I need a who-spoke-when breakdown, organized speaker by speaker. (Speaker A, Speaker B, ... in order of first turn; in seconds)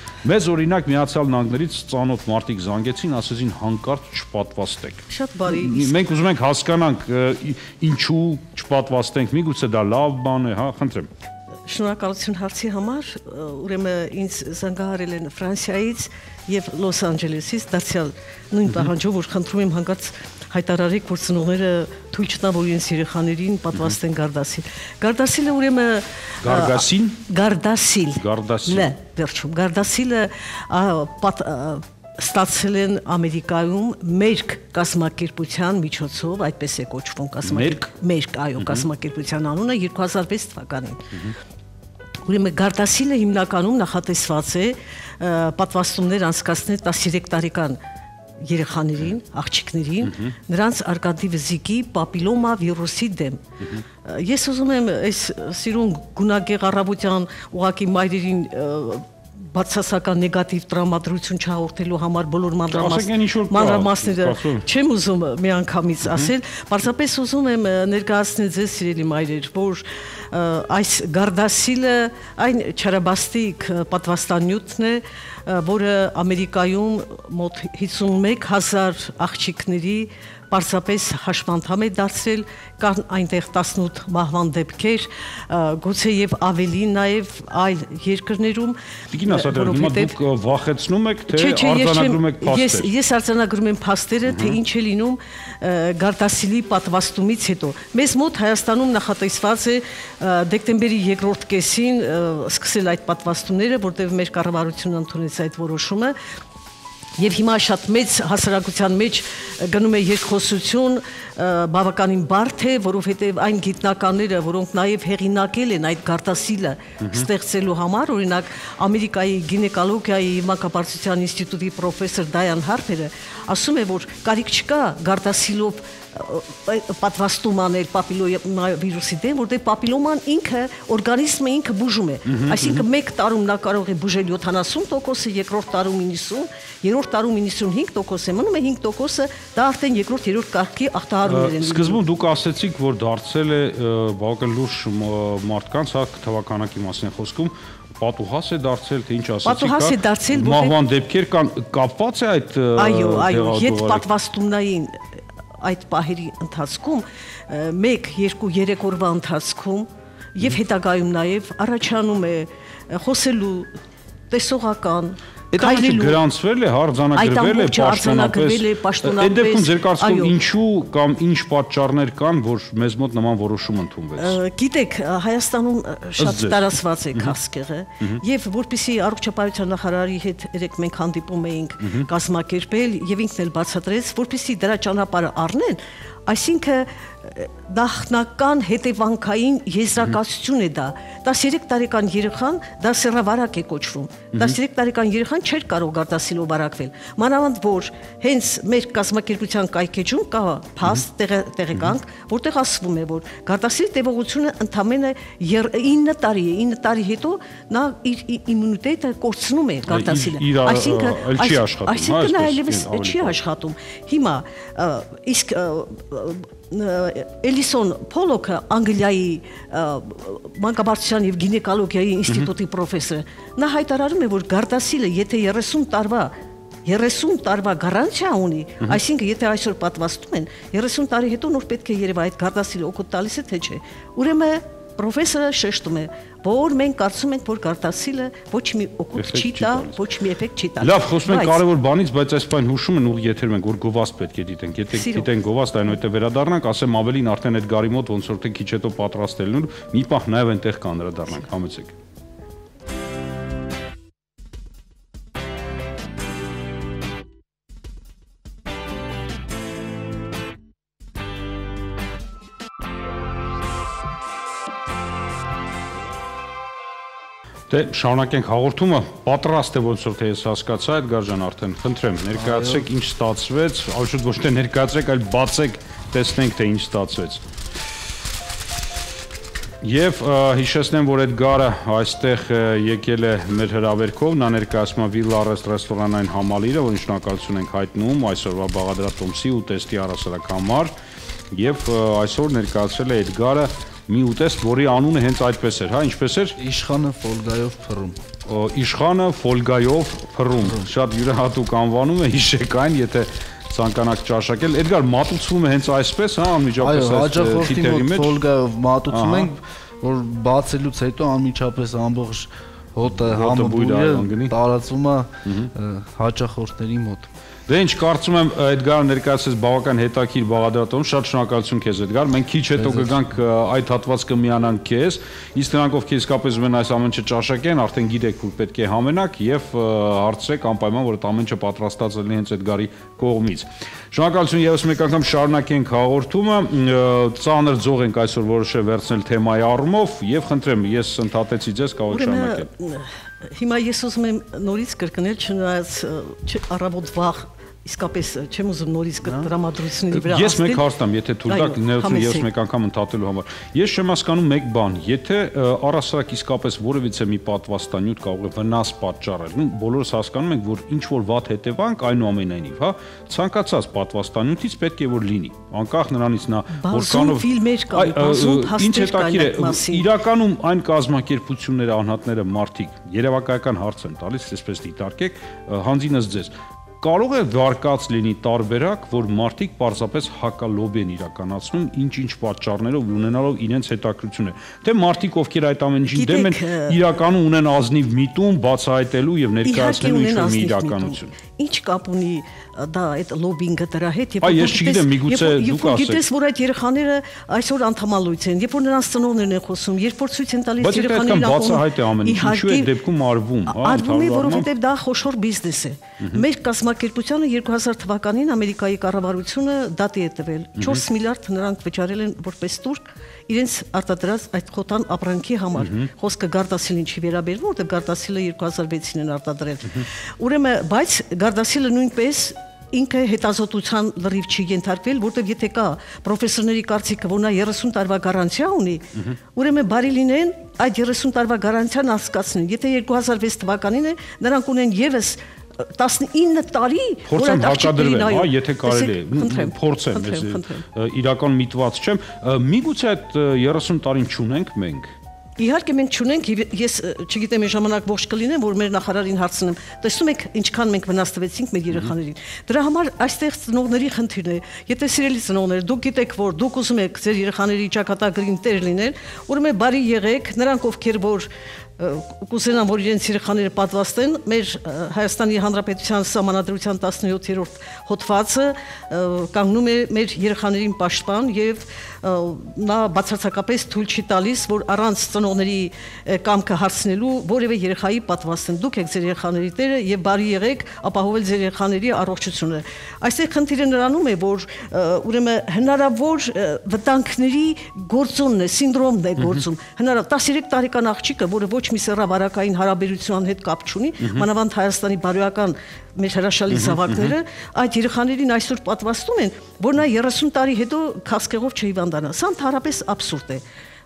Speaker A: 0.2-11.1, 26.4-27.2, 28.1-28.9, 37.4-37.9, 38.6-38.9, 50.0-50.3, 62.7-64.6, 89.1-92.9, 94.2-94.6, 117.0-117.3, 132.2-132.8, 141.2-154.1, 165.5-174.4, 176.2-176.6, 209.9-213.3, 239.2-240.0, 240.8-251.9, 267.7-277.4, 279.8-290.9, 291.5-296.6, 298.4-308.4, 309.1-309.5, 313.2-314.5, 317.7-342.7, 350.1-391.3, 394.4-396.2, 400.8-404.7, 410.8-411.0, 415.8-416.1, 437.3-445.1, 494.2-494.4, 496.7-497.3
Speaker B: 5.1-5.9, 11.7-41.2, 42.2-47.8, 48.4-53.4, 54.0-90.2, 91.3-106.2, 107.2-142.0, 149.4-150.7, 152.8-155.0, 155.6-163.7, 164.3-166.2, 167.1-170.3, 174.2-226.3, 226.8-241.6, 244.9-245.3, 342.1-350.8, 351.5-352.5, 366.7-370.1, 386.1-387.0, 389.6-402.9, 403.7-440.8, 445.6-503.6
Speaker C: 272.4-272.8, 296.6-298.2, 306.8-317.3, 322.8-323.2